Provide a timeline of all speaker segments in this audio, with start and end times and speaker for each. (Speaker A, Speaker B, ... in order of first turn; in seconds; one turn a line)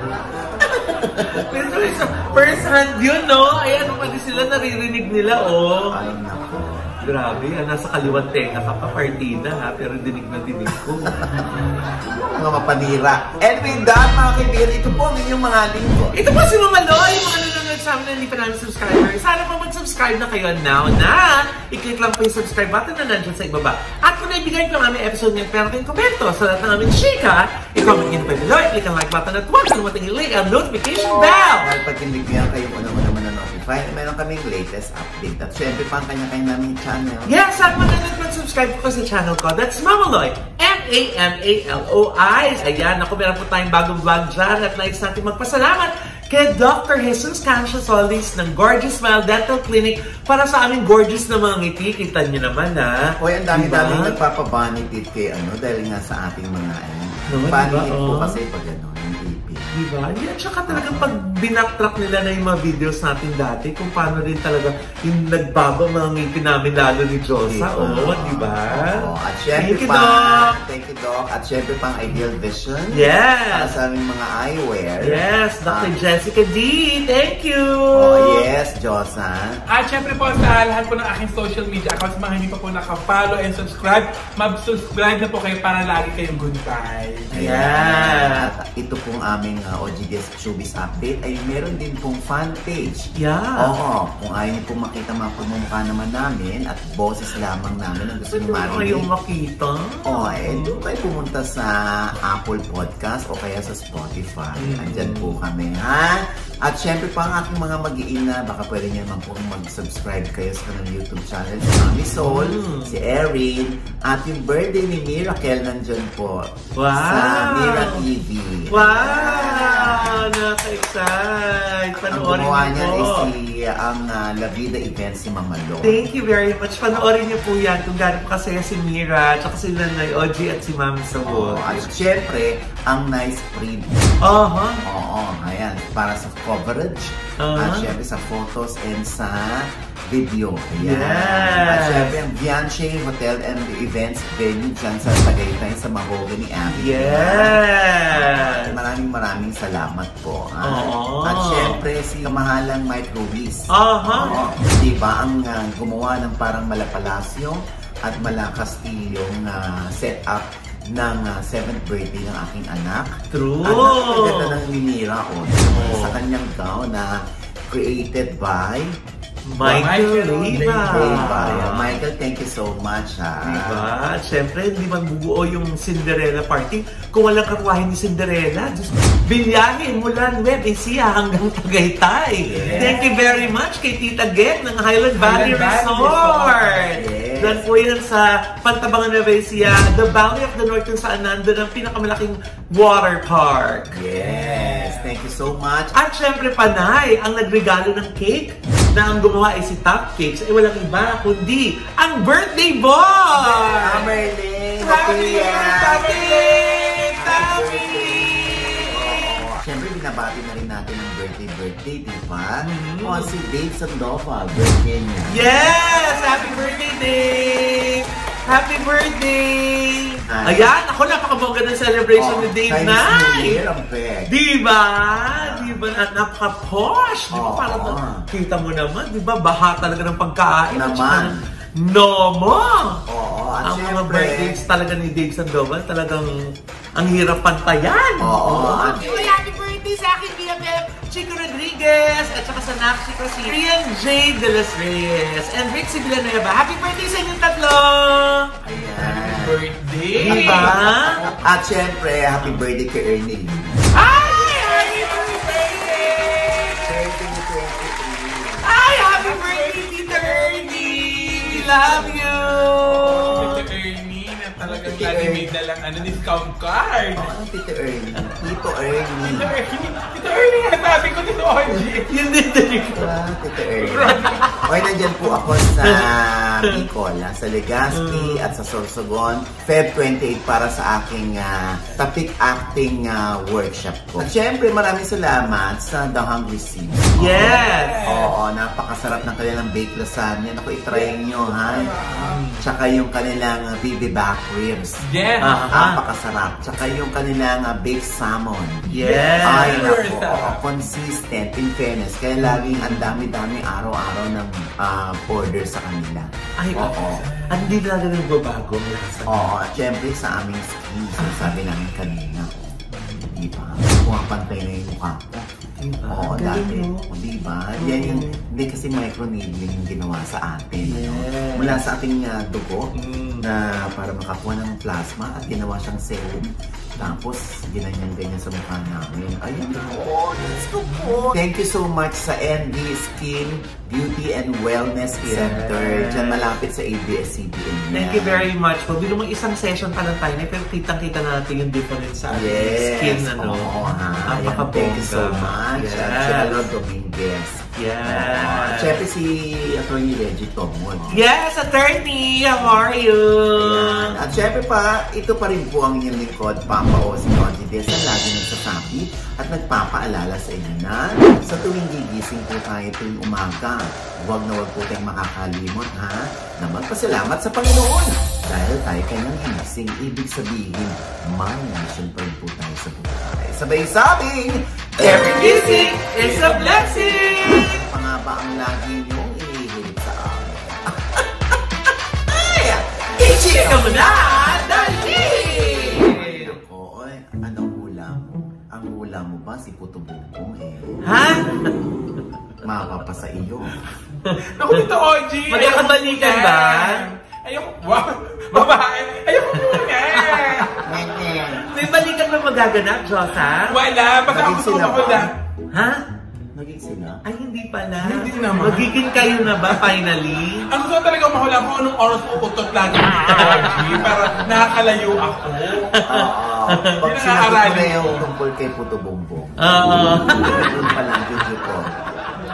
Speaker A: 0.7-6.0
Speaker B: 0.9-1.5
Speaker B: 5.9-7.0
Speaker A: 7.0-11.6
Speaker B: 11.0-16.2
Speaker A: 16.1-31.7
Speaker B: 31.6-37.3
Speaker A: 37.3-54.2
Speaker B: 53.2-59.8
Speaker A: 57.3-58.4
Speaker A: 59.7-70.6
Speaker B: 60.7-61.1
Speaker B: 67.5-75.9
Speaker A: 72.9-73.8
Speaker A: 75.0-78.4
Speaker B: 78.0-79.6
Speaker C: 79.7-87.3
Speaker A: 87.3-88.5
Speaker B: 87.3-99.1
Speaker A: 93.2-93.7
Speaker A: 98.3-100.8
Speaker B: 100.1-120.3
Speaker A: 104.6-105.4
Speaker A: 112.2-113.0
Speaker A: 116.8-118.0
Speaker A: 118.7-123.3
Speaker B: 122.0-126.0
Speaker A: 125.8-131.9
Speaker B: 131.2-134.1
Speaker A: 134.2-134.8
Speaker B: 134.8-169.0
Speaker A: 137.4-137.9
Speaker A: 140.8-142.2
Speaker A: 146.7-148.8
Speaker A: 150.6-151.8
Speaker A: 153.7-154.4
Speaker A: 163.3-164.6
Speaker A: 165.7-166.2
Speaker A: 169.5-172.0
Speaker C: 169.6-171.6
Speaker B: 170.9-173.9
Speaker A: 173.4-194.0
Speaker B: 182.4-183.0
Speaker C: 182.6-183.3
Speaker C: 185.2-186.9
Speaker B: 186.9-187.7
Speaker B: 193.9-195.9
Speaker C: 194.2-195.1
Speaker A: 195.9-204.1
Speaker C: 203.4-204.1
Speaker B: 203.8-206.2
Speaker A: 204.8-209.3
Speaker C: 205.1-208.0
Speaker B: 207.3-215.5
Speaker A: 212.6-213.3
Speaker A: 215.3-223.6
Speaker C: 215.8-217.8
Speaker B: 220.3-220.7
Speaker B: 222.2-224.3
Speaker A: 224.3-233.0
Speaker B: 225.3-225.8
Speaker B: 227.3-228.3
Speaker B: 230.7-231.5
Speaker B: 233.1-234.6
Speaker A: 233.6-236.4
Speaker A: 237.0-248.5
Speaker B: 238.2-239.4
Speaker B: 248.7-249.6
Speaker C: 248.7-250.8
Speaker B: 250.2-253.9
Speaker A: 250.2-251.2
Speaker A: 253.9-256.9
Speaker C: 254.1-256.8
Speaker B: 256.8-258.7
Speaker A: 258.6-263.6
Speaker C: 258.9-261.9
Speaker B: 261.6-262.8
Speaker C: 262.9-267.3
Speaker B: 264.6-265.5
Speaker B: 267.1-269.6
Speaker C: 269.2-272.2
Speaker A: 271.9-273.2
Speaker B: 272.9-298.9
Speaker C: 273.8-274.6
Speaker A: 274.0-274.7
Speaker A: 275.8-276.1
Speaker A: 277.9-278.5
Speaker A: 287.1-288.0
Speaker C: 287.3-288.3
Speaker C: 290.9-292.5
Speaker A: 292.2-292.6
Speaker C: 295.0-295.7
Speaker A: 295.4-296.0
Speaker A: 298.9-300.0
Speaker C: 298.9-300.6
Speaker B: 299.4-307.3
Speaker A: 302.4-303.2
Speaker A: 306.6-309.5
Speaker B: 309.3-312.8
Speaker A: 311.2-311.6
Speaker A: 312.9-313.4
Speaker B: 313.3-315.5
Speaker A: 315.8-317.1
Speaker B: 316.1-338.5
Speaker A: 317.8-318.4
Speaker A: 320.8-321.8
Speaker A: 322.9-323.5
Speaker A: 330.4-331.4
Speaker A: 335.2-336.5
Speaker A: 337.9-343.7
Speaker B: 342.3-351.2
Speaker A: 344.2-346.6
Speaker A: 347.8-349.0
Speaker A: 351.1-354.2
Speaker B: 353.5-376.0
Speaker A: 375.0-377.8
Speaker C: 375.7-377.3
Speaker B: 376.9-381.5
Speaker B: 382.3-391.8
Speaker A: 383.2-386.5
Speaker A: 391.0-391.9
Speaker B: 392.6-393.9
Speaker A: 394.2-394.8
Speaker C: 394.4-400.8
Speaker A: 395.5-397.1
Speaker A: 399.5-400.8
Speaker B: 400.8-401.7
Speaker A: 401.6-403.8
Speaker C: 403.7-405.3
Speaker B: 404.3-405.3
Speaker A: 405.7-406.0
Speaker B: 406.5-407.2
Speaker A: 407.2-410.7
Speaker C: 408.0-409.9
Speaker C: 410.7-416.0
Speaker A: 413.3-414.1
Speaker B: 413.9-415.0
Speaker A: 415.9-417.0
Speaker B: 416.1-422.2
Speaker C: 417.0-418.2
Speaker A: 419.6-420.7